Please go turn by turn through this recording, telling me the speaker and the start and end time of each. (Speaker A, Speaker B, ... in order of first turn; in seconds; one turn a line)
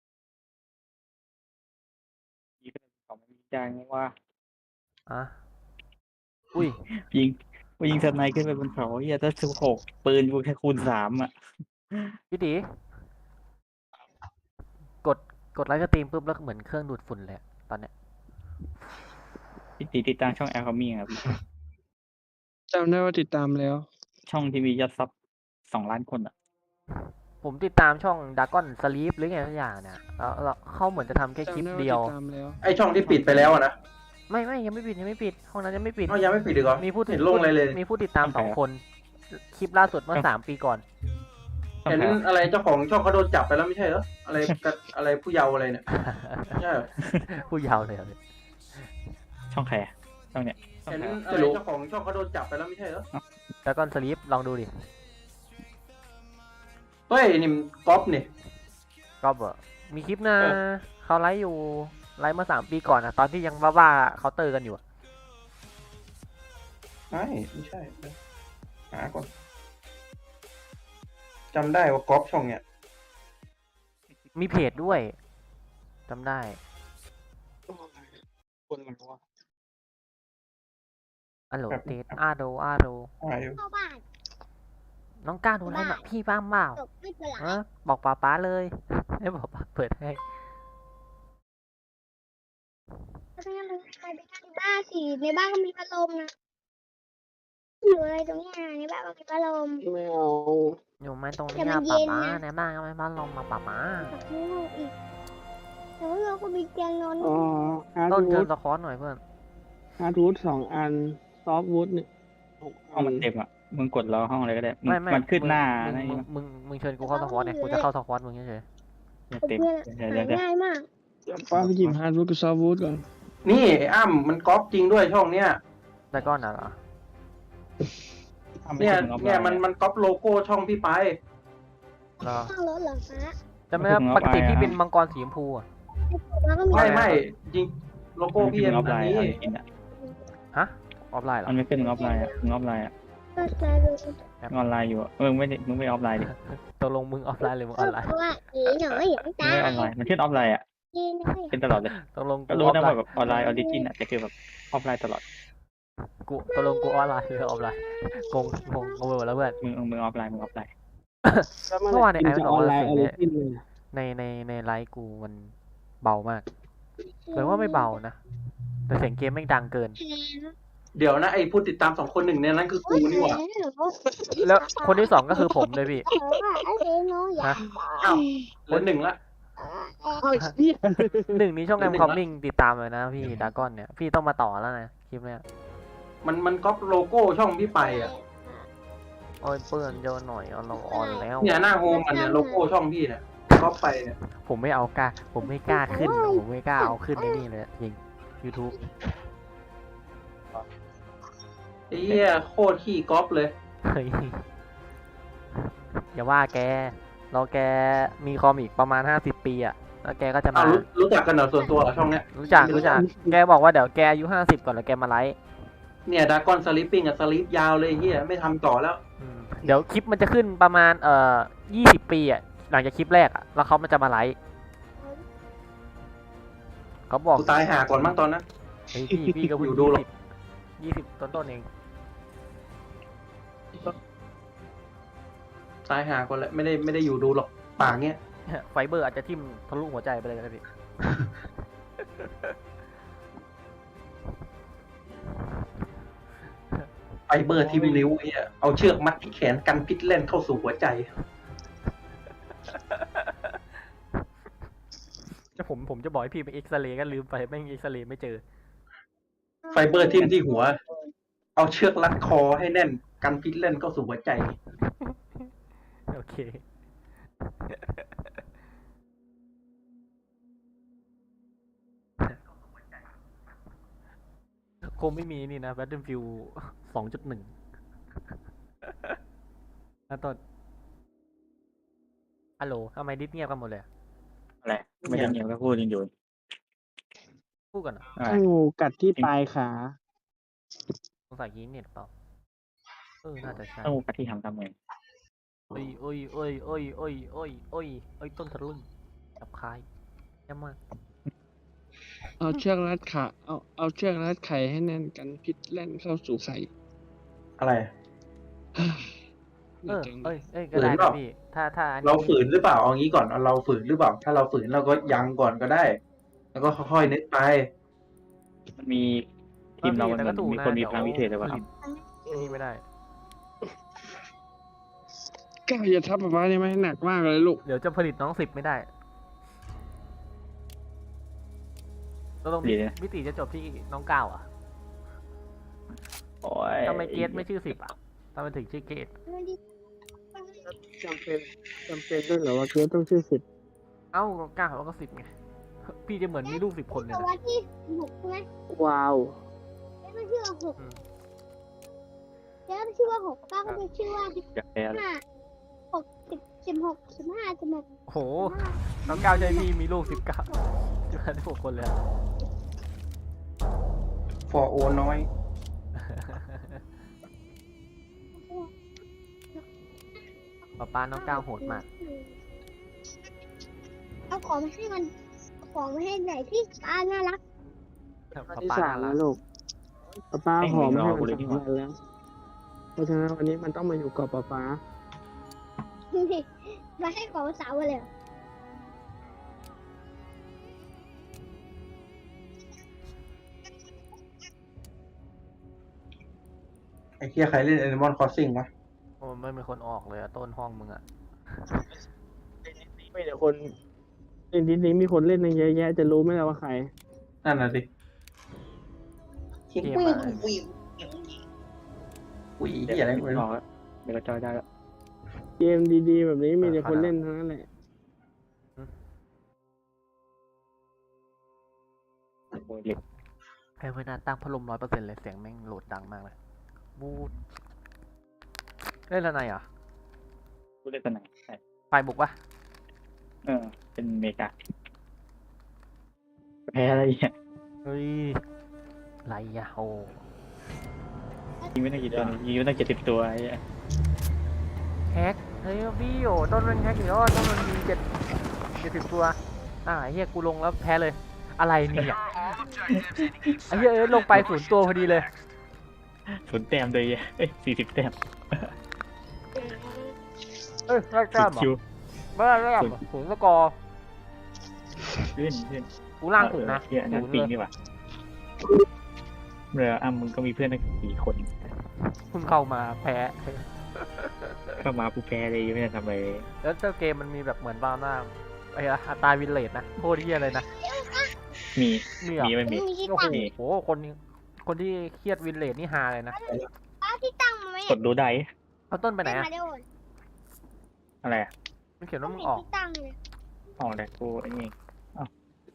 Speaker A: 2.6-4.1
Speaker B: 5.1-5.3
Speaker B: 6.5-6.8
Speaker A: 7.1-11.3
Speaker A: 11.9-12.2
Speaker B: 12.3-12.6
Speaker B: 15.0-17.9
Speaker A: 19.8-21.2
Speaker C: 22.7-23.9
Speaker A: 24.3-25.1
Speaker A: 25.7-26.3
Speaker B: 27.4-32.1
Speaker C: 31.4-32.6
Speaker D: 32.6-33.7
Speaker B: 34.3-36.2
Speaker D: 36.1-37.8
Speaker B: 36.8-40.8
Speaker A: 38.2-38.6
Speaker A: 41.9-42.2
Speaker D: 41.9-45.8
Speaker B: 45.9-46.6
Speaker D: 46.5-46.9
Speaker B: 47.3-48.2
Speaker A: 49.5-51.2
Speaker D: 50.9-53.1
Speaker C: 51.3-51.6
Speaker B: 53.6-54.7
Speaker D: 57.1-58.3
Speaker B: 59.2-64.8
Speaker D: 67.1-68.1
Speaker D: 68.9-69.3
Speaker D: 71.5-72.6
Speaker B: 74.3-75.2
Speaker B: 76.1-76.6
Speaker C: 77.7-78.1
Speaker C: 78.7-79.2
Speaker B: 81.5-83.1
Speaker D: 81.7-82.2
Speaker D: 83.2-83.6
Speaker E: 83.5-84.0
Speaker B: 85.2-86.8
Speaker E: 85.7-86.1
Speaker E: 86.8-87.5
Speaker B: 87.4-90.2
Speaker E: 93.4-96.3
Speaker E: 97.8-99.8
Speaker C: 99.8-100.8
Speaker B: 101.0-104.1
Speaker E: 101.5-102.4
Speaker E: 104.0-104.9
Speaker E: 106.0-107.7
Speaker C: 107.2-108.5
Speaker B: 108.1-109.2
Speaker C: 110.0-112.1
Speaker C: 112.6-113.2
Speaker A: 112.9-116.2
Speaker B: 114.8-118.6
Speaker E: 117.0-117.9
Speaker A: 119.3-120.4
Speaker E: 119.4-120.9
Speaker C: 121.2-123.0
Speaker A: 121.5-122.0
Speaker D: 123.4-125.6
Speaker B: 126.1-126.8
Speaker A: 128.7-129.6
Speaker D: 128.8-131.2
Speaker B: 132.2-132.5
Speaker E: 132.2-133.3
Speaker B: 133.7-135.7
Speaker A: 133.8-134.8
Speaker E: 136.1-137.1
Speaker D: 136.7-139.4
Speaker B: 136.7-137.2
Speaker A: 138.4-139.6
Speaker E: 139.4-140.2
Speaker B: 140.5-141.6
Speaker A: 141.4-142.9
Speaker E: 141.8-142.4
Speaker E: 143.3-144.2
Speaker A: 144.5-146.3
Speaker B: 146.3-148.1
Speaker E: 147.8-149.9
Speaker A: 149.4-150.6
Speaker E: 150.9-151.6
Speaker A: 151.5-155.2
Speaker B: 152.0-153.0
Speaker E: 153.2-153.9
Speaker B: 156.2-159.6
Speaker E: 156.5-159.3
Speaker A: 159.6-160.7
Speaker B: 161.3-163.2
Speaker C: 161.6-163.6
Speaker B: 163.9-166.4
Speaker E: 167.2-168.0
Speaker B: 167.3-168.2
Speaker B: 168.9-170.0
Speaker E: 170.0-170.5
Speaker D: 170.9-173.4
Speaker E: 172.8-175.4
Speaker B: 174.4-176.1
Speaker E: 176.0-178.2
Speaker D: 178.0-179.2
Speaker E: 179.6-180.2
Speaker C: 180.2-181.4
Speaker B: 181.3-185.4
Speaker D: 181.8-182.2
Speaker D: 186.2-188.1
Speaker E: 187.8-188.7
Speaker B: 189.4-191.6
Speaker E: 190.7-192.7
Speaker D: 191.4-194.1
Speaker B: 194.4-198.8
Speaker E: 195.4-197.4
Speaker D: 201.9-203.5
Speaker B: 203.8-204.4
Speaker B: 206.1-210.8
Speaker D: 210.5-213.0
Speaker E: 211.6-211.9
Speaker B: 212.3-215.4
Speaker E: 212.4-213.0
Speaker C: 212.5-213.4
Speaker D: 216.1-219.0
Speaker B: 219.2-224.4
Speaker B: 227.1-228.1
Speaker D: 227.3-228.4
Speaker B: 228.9-230.1
Speaker D: 229.5-230.0
Speaker B: 230.8-231.7
Speaker D: 235.9-238.2
Speaker B: 238.5-240.6
Speaker B: 242.2-242.5
Speaker D: 247.3-251.1
Speaker C: 247.6-248.1
Speaker B: 252.7-253.5
Speaker B: 255.6-258.4
Speaker E: 259.6-261.1
Speaker D: 259.7-260.8
Speaker D: 261.6-264.6
Speaker B: 266.1-266.6
Speaker B: 267.7-268.0
Speaker B: 274.8-277.5
Speaker B: 278.9-279.2
Speaker B: 280.1-280.4
Speaker B: 282.6-283.9
Speaker A: 284.6-286.1
Speaker B: 287.7-288.1
Speaker A: 288.1-288.4
Speaker C: 288.2-289.9
Speaker B: 291.3-292.1
Speaker B: 293.2-294.0
Speaker A: 293.8-294.7
Speaker B: 295.7-298.9
Speaker B: 299.4-299.8
Speaker B: 300.5-300.8
Speaker C: 302.4-306.7
Speaker D: 307.6-307.9
Speaker C: 309.8-310.4
Speaker B: 309.9-312.5
Speaker D: 310.7-311.2
Speaker D: 312.0-316.0
Speaker D: 316.5-317.7
Speaker A: 318.8-319.3
Speaker A: 319.8-321.6
Speaker B: 319.8-321.6
Speaker C: 322.2-322.6
Speaker B: 322.3-322.8
Speaker C: 325.7-327.6
Speaker B: 327.6-328.9
Speaker B: 332.4-334.5
Speaker A: 332.6-332.9
Speaker A: 336.4-337.8
Speaker B: 336.8-339.1
Speaker E: 339.2-339.6
Speaker E: 340.3-340.7
Speaker C: 340.7-343.4
Speaker B: 344.1-345.3
Speaker B: 345.9-347.3
Speaker E: 346.4-348.5
Speaker C: 348.7-349.4
Speaker E: 350.0-350.8
Speaker E: 352.7-355.2
Speaker A: 354.5-355.0
Speaker E: 355.9-357.8
Speaker B: 358.1-362.0
Speaker E: 358.4-360.6
Speaker D: 364.5-365.2
Speaker B: 366.0-366.8
Speaker E: 368.4-368.7
Speaker B: 370.8-371.8
Speaker E: 371.1-372.4
Speaker E: 374.3-375.1
Speaker E: 375.6-377.4
Speaker B: 378.3-379.2
Speaker C: 378.5-379.4
Speaker C: 380.3-381.9
Speaker A: 380.6-381.6
Speaker C: 382.9-384.8
Speaker E: 386.1-388.1
Speaker D: 397.2-398.7
Speaker B: 399.2-401.8
Speaker C: 402.6-403.7
Speaker C: 404.5-406.9
Speaker D: 407.4-407.9
Speaker D: 409.7-410.5
Speaker B: 409.8-410.5
Speaker E: 410.0-410.6
Speaker D: 412.6-413.4
Speaker A: 412.9-414.6
Speaker C: 415.6-417.7
Speaker B: 416.6-417.1
Speaker A: 422.5-423.0
Speaker B: 423.8-426.3
Speaker B: 426.9-427.3
Speaker B: 429.1-429.6
Speaker A: 430.8-431.6
Speaker B: 431.9-432.4
Speaker A: 433.4-434.5
Speaker A: 436.7-437.3
Speaker B: 437.8-438.4
Speaker B: 439.2-440.2
Speaker E: 441.6-442.2
Speaker A: 441.7-443.6
Speaker B: 445.1-448.1
Speaker B: 448.8-452.3
Speaker A: 452.9-453.5
Speaker B: 453.7-455.3
Speaker A: 456.3-458.7
Speaker E: 459.6-460.1
Speaker B: 460.9-461.7
Speaker A: 461.3-461.8
Speaker B: 462.3-463.8
Speaker A: 465.2-467.7
Speaker B: 466.2-467.5
Speaker A: 469.7-471.7
Speaker B: 472.3-474.8
Speaker A: 474.8-476.5
Speaker B: 476.6-480.6
Speaker E: 480.5-481.3
Speaker A: 481.8-483.5
Speaker B: 482.2-486.4
Speaker E: 482.7-483.4
Speaker E: 486.3-488.0
Speaker A: 487.9-488.5
Speaker B: 488.9-489.5
Speaker E: 489.2-489.8
Speaker A: 491.2-491.5
Speaker B: 492.0-492.7
Speaker E: 492.2-493.2
Speaker A: 493.8-495.3